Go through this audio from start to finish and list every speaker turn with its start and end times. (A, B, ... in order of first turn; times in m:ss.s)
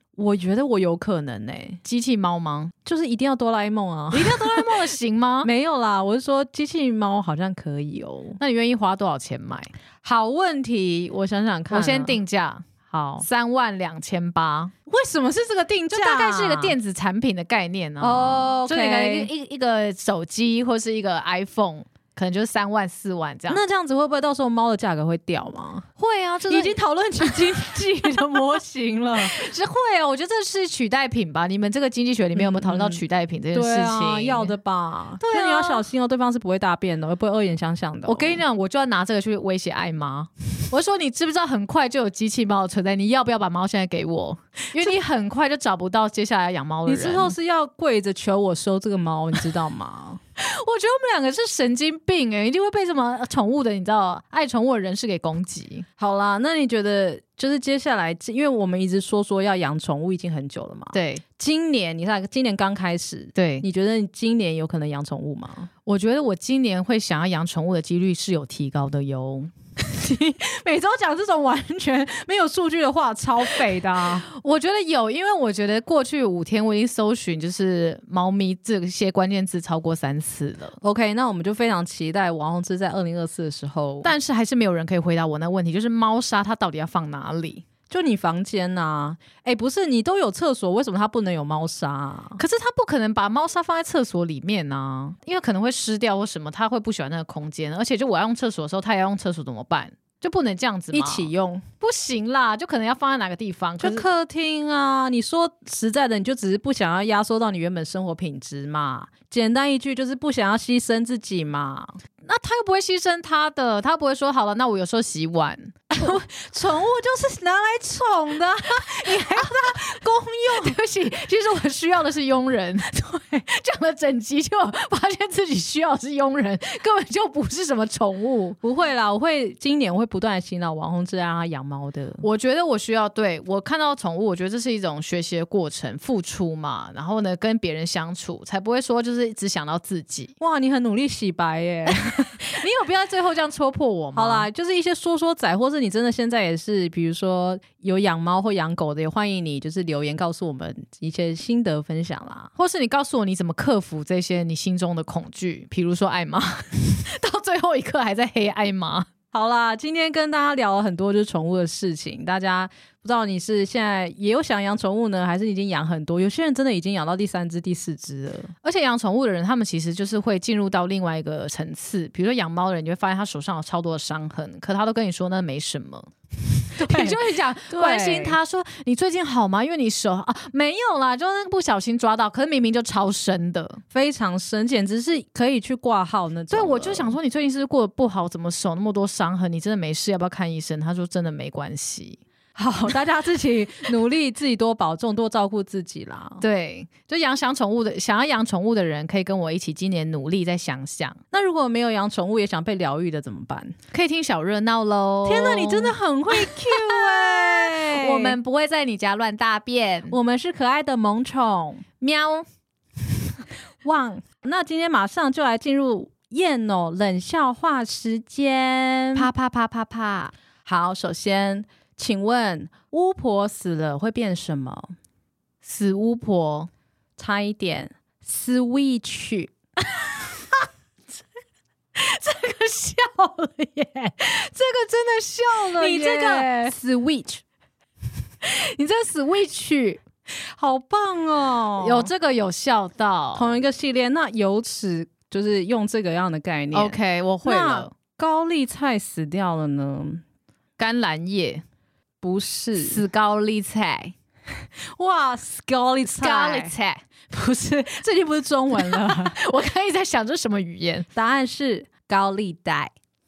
0:00.2-0:01.8 A
0:01.8-0:02.7 B
0:02.8-0:04.7 A
0:04.1-0:05.5 B
0:05.4-0:08.4 A
0:08.4-0:09.7 B
0:10.0-0:12.2 A
0:11.7-0:12.7 B
0:12.9-0:13.2 A
0:13.2-0:14.7 B
0:14.9-0:16.8 A
0:15.9-0:23.6 B
0:18.0-0:19.3 A
0:23.5-0:25.9 A
0:26.0-0:28.4 B
0:26.5-0:29.4 A
0:29.2-0:34.5 B
0:32.4-0:33.0 A
0:33.5-0:38.4 A
0:35.2-0:35.9 B
0:38.0-0:47.3 B
0:46.8-0:50.2 A
0:50.4-0:55.8 B
0:56.0-1:05.7 A
1:00.9-1:01.2 B
1:03.4-1:03.6 B
1:05.8-1:09.5 B
1:09.8-1:14.3 A
1:14.2-1:20.8 B
1:20.8-1:24.1 A
1:24.0-1:27.6 B
1:27.9-1:32.4 A
1:32.4-1:44.0 B
1:40.9-1:41.6 A
1:43.8-1:52.0 A
1:52.2-1:56.1 B
1:55.9-2:00.8 A
1:58.7-2:08.6 B
2:08.6-2:12.2 A
2:12.2-2:20.3 B
2:20.4-2:22.4 A
2:21.9-2:24.5 B
2:24.1-2:32.5 A
2:32.6-2:39.1 B
2:39.3-2:48.5 A
2:48.6-2:56.1 B
2:56.7-3:03.8 B
2:56.8-2:58.4 A
3:03.9-3:07.2 A
3:06.5-3:12.2 B
3:12.5-3:16.4 A
3:16.4-3:21.2 B
3:21.3-3:23.8 A
3:23.9-3:30.2 B
3:25.2-3:28.4 A
3:30.1-3:31.8 A
3:32.0-3:32.4 B
3:33.8-3:39.3 A
3:39.2-3:40.3 B
3:40.6-3:44.9 A
3:45.6-3:46.7 B
3:47.2-3:49.5 A
3:49.8-3:50.7 B
3:51.9-3:56.7 B
3:55.6-3:57.4 A
3:58.4-4:00.0 B
4:00.4-4:02.1 A
4:01.8-4:03.6 B
4:03.3-4:10.2 A
4:06.7-4:07.9 B
4:10.8-4:11.6 B
4:12.2-4:13.0 A
4:12.8-4:14.1 B
4:15.0-4:16.7 A
4:16.1-4:17.0 B
4:17.3-4:19.4 A
4:18.8-4:21.1 B
4:21.1-4:22.9 A